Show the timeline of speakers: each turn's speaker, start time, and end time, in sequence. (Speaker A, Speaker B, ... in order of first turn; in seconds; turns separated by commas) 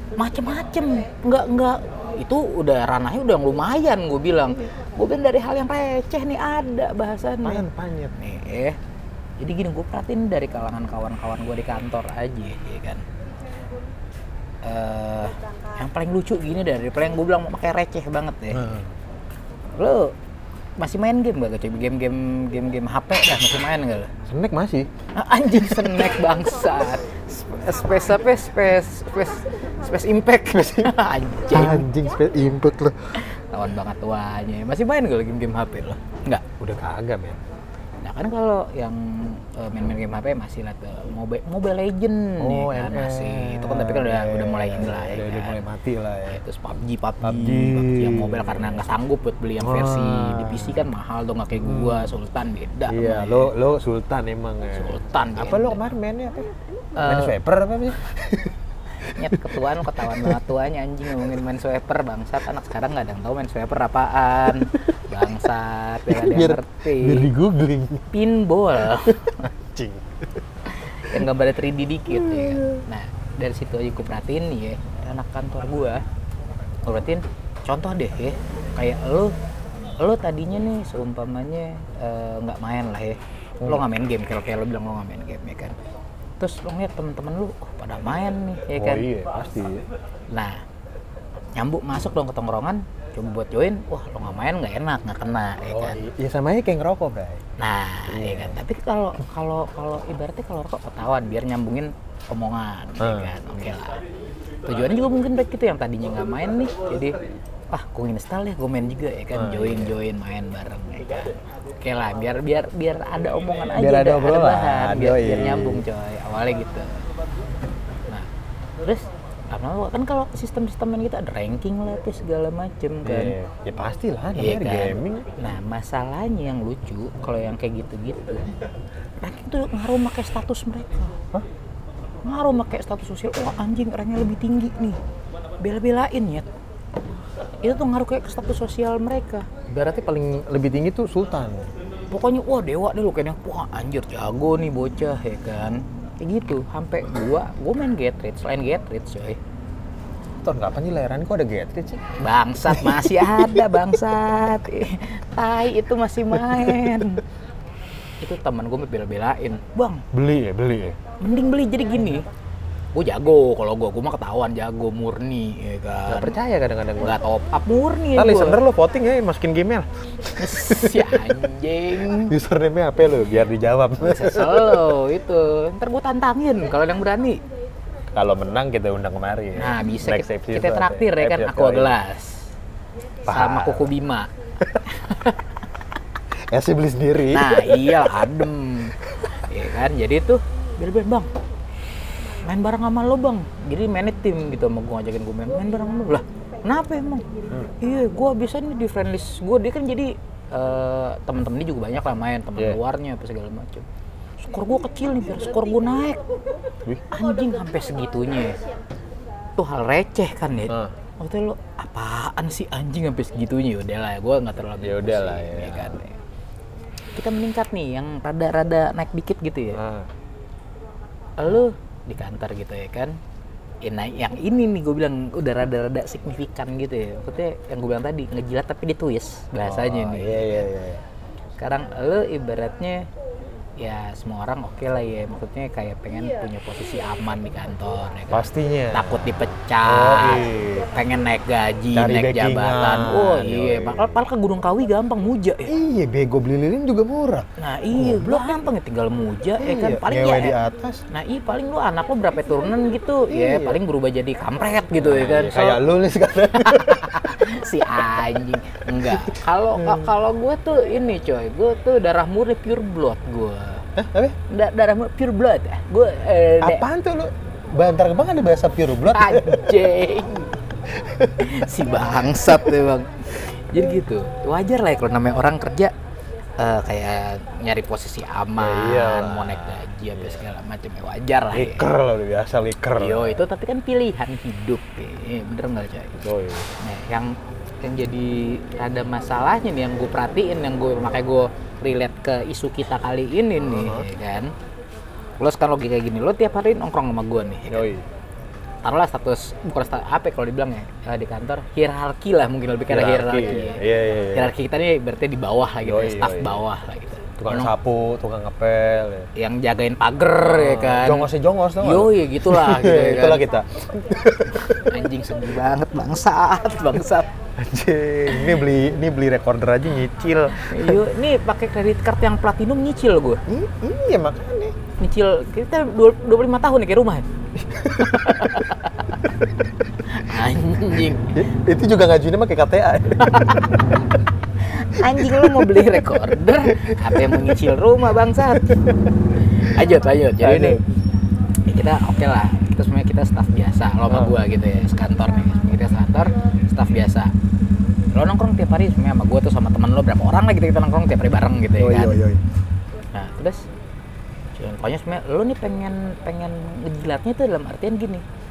Speaker A: 0.2-8.8, Speaker B: 7.4-8.1, Speaker A: 9.4-13.1, Speaker A: 14.6-18.6, Speaker B: 18.5-18.9, Speaker A: 19.8-20.1, Speaker A: 20.8-24.1, Speaker B: 24.3-24.9, Speaker A: 25.1-31.9, Speaker B: 25.7-26.0, Speaker B: 30.5-30.9, Speaker B: 31.5-33.0, Speaker A: 33.2-36.4, Speaker B: 36.6-37.4, Speaker A: 38.0-45.7, Speaker B: 42.4-46.4, Speaker A: 46.2-53.5, Speaker B: 47.2-48.8, Speaker B: 49.6-50.9, Speaker B: 51.5-52.2, Speaker B: 52.9-58.6, Speaker A: 54.7-55.8, Speaker A: 57.0-57.3, Speaker A: 59.0-67.3, Speaker B: 59.1-60.4, Speaker B: 66.1-68.1, Speaker A: 68.1-69.5, Speaker B: 69.1-70.4, Speaker A: 70.8-76.0, Speaker B: 72.2-72.8, Speaker A: 76.9-79.3, Speaker A: 80.0-85.8, Speaker A: 86.4-89.0, Speaker B: 88.8-89.8, Speaker A: 90.3-90.6, Speaker A: 91.6-96.0, Speaker B: 95.7-97.4, Speaker A: 97.6-104.0, Speaker B: 98.1-98.6, Speaker B: 103.0-103.7, Speaker A: 104.7-107.2, Speaker A: 107.7-117.0, Speaker B: 109.3-110.0, Speaker B: 113.8-115.8, Speaker A: 118.8-123.4, Speaker B: 123.0-125.3, Speaker A: 124.4-128.5, Speaker A: 129.2-131.2, Speaker A: 132.2-135.0, Speaker A: 135.6-136.5, Speaker A: 137.6-139.5, Speaker B: 139.7-141.7, Speaker A: 142.1-149.4, Speaker B: 150.4-152.1, Speaker A: 152.2-157.2, Speaker B: 152.7-153.8, Speaker B: 156.5-156.8, Speaker A: 158.2-160.0, Speaker B: 160.1-161.0, Speaker A: 161.2-162.3, Speaker A: 162.9-166.4, Speaker B: 166.1-167.2, Speaker A: 167.0-168.6, Speaker B: 168.2-171.4, Speaker A: 170.4-172.4, Speaker B: 172.1-174.9, Speaker A: 174.0-177.4, Speaker B: 178.2-181.9, Speaker A: 179.6-182.4, Speaker B: 183.3-183.9, Speaker A: 183.3-184.3, Speaker A: 184.8-185.4, Speaker B: 186.5-188.1, Speaker A: 187.3-191.3, Speaker A: 192.4-197.2, Speaker A: 197.8-203.9, Speaker A: 204.4-206.2, Speaker A: 207.1-208.6, Speaker A: 209.6-216.2, Speaker B: 214.8-216.0, Speaker A: 217.2-219.8, Speaker B: 219.7-220.1, Speaker A: 221.4-223.2, Speaker A: 223.8-230.7, Speaker B: 229.6-231.0, Speaker A: 231.6-233.1, Speaker A: 233.8-245.7, Speaker B: 238.3-240.9, Speaker B: 241.9-244.3, Speaker B: 245.7-248.7, Speaker A: 247.6-250.6, Speaker B: 249.6-251.0, Speaker A: 251.1-255.8, Speaker B: 253.3-253.8, Speaker B: 255.0-257.4, Speaker A: 256.5-263.9, Speaker B: 259.0-260.1, Speaker B: 264.0-264.4, Speaker A: 264.5-266.9, Speaker B: 266.6-269.8, Speaker A: 269.1-270.6, Speaker B: 270.9-271.7, Speaker A: 271.4-275.9, Speaker A: 276.6-281.9, Speaker B: 278.6-280.4, Speaker B: 281.5-283.4, Speaker A: 283.0-286.2, Speaker B: 286.2-286.7, Speaker A: 286.8-294.5, Speaker B: 293.6-294.1, Speaker A: 295.4-297.9, Speaker B: 297.7-298.1, Speaker A: 298.8-307.7, Speaker B: 302.9-304.5, Speaker B: 305.8-306.6, Speaker B: 307.4-309.3, Speaker A: 309.4-311.3, Speaker B: 310.5-315.0, Speaker A: 311.8-313.4, Speaker A: 314.7-317.3, Speaker B: 317.6-321.0, Speaker A: 320.5-323.4, Speaker B: 323.5-324.8, Speaker A: 325.0-327.2, Speaker B: 327.6-328.6, Speaker A: 327.9-329.2, Speaker A: 330.0-331.4, Speaker B: 331.2-333.3, Speaker A: 333.2-333.8, Speaker A: 334.6-338.8, Speaker B: 335.0-337.7, Speaker B: 338.6-338.9, Speaker A: 339.4-340.8, Speaker B: 340.4-340.8, Speaker A: 341.7-347.3, Speaker B: 344.1-344.4, Speaker A: 348.1-352.2, Speaker B: 351.8-352.4, Speaker A: 353.1-353.6, Speaker A: 354.6-358.2